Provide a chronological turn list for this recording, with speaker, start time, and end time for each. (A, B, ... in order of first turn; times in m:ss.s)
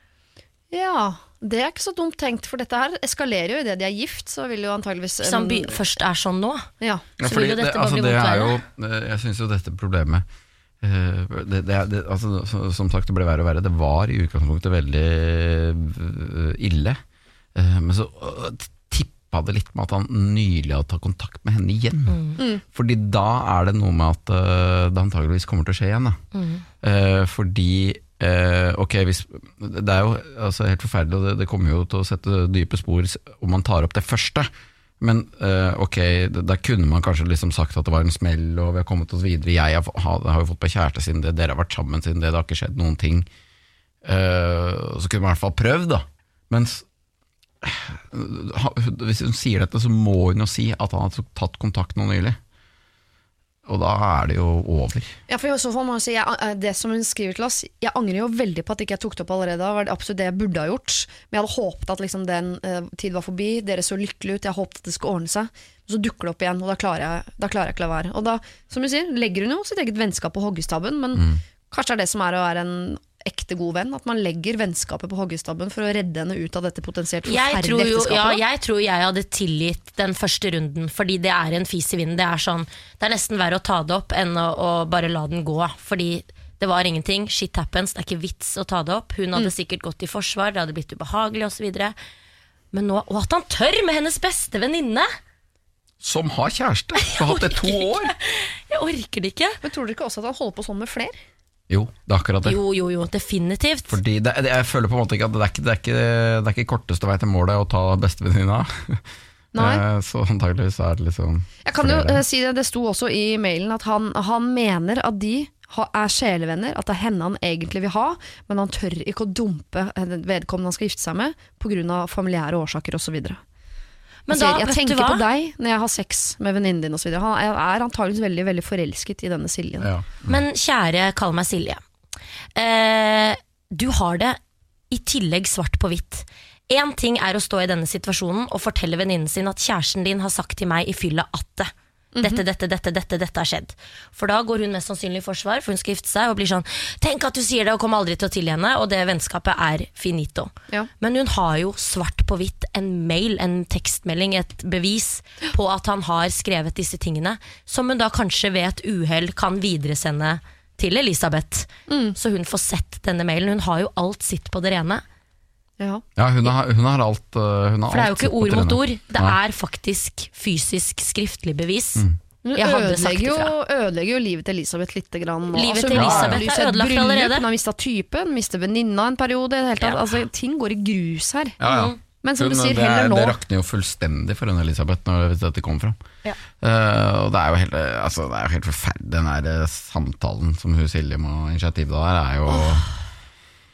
0:00.7-0:05.8 A
0:05.2-0:06.7 B
0:06.8-0:07.1 A
0:07.2-0:10.2 C
0:07.2-0:08.6 B
0:10.8-0:17.0 C
0:17.6-0:26.2 C
0:22.1-0:22.4 B
0:26.3-0:26.6 B
0:26.8-0:34.5 C
0:35.0-0:43.3 C
0:44.0-0:46.8 C
0:47.6-0:52.4 C
0:53.6-0:55.1 C
0:55.3-1:18.4 A
1:17.2-1:32.0 B
1:32.7-1:35.1 B
1:36.0-1:38.1 C
1:37.0-1:39.6 B
1:39.6-1:41.1 A
1:41.7-1:42.6 C
1:42.4-1:44.0 B
1:43.9-1:49.0 C
1:49.5-1:49.8 A
1:49.6-1:52.2 C
1:51.6-2:03.4 A
2:04.3-2:05.2 B
2:04.3-2:09.9 A
2:09.8-2:10.4 C
2:10.2-2:11.8 B
2:12.6-2:14.4 B
2:14.9-2:45.0 B
2:22.1-2:22.4 A
2:41.9-2:42.2 A
2:45.8-2:46.0 A
2:46.2-2:49.4 C
2:47.9-2:52.0 B
2:52.4-3:01.6 A
2:52.6-2:53.5 B
2:55.5-2:57.5 B
2:55.9-2:56.4 C
3:01.6-3:06.0 C
3:01.6-3:02.0 B
3:02.2-3:03.4 A
3:06.6-3:12.9 C
3:12.5-3:12.9 B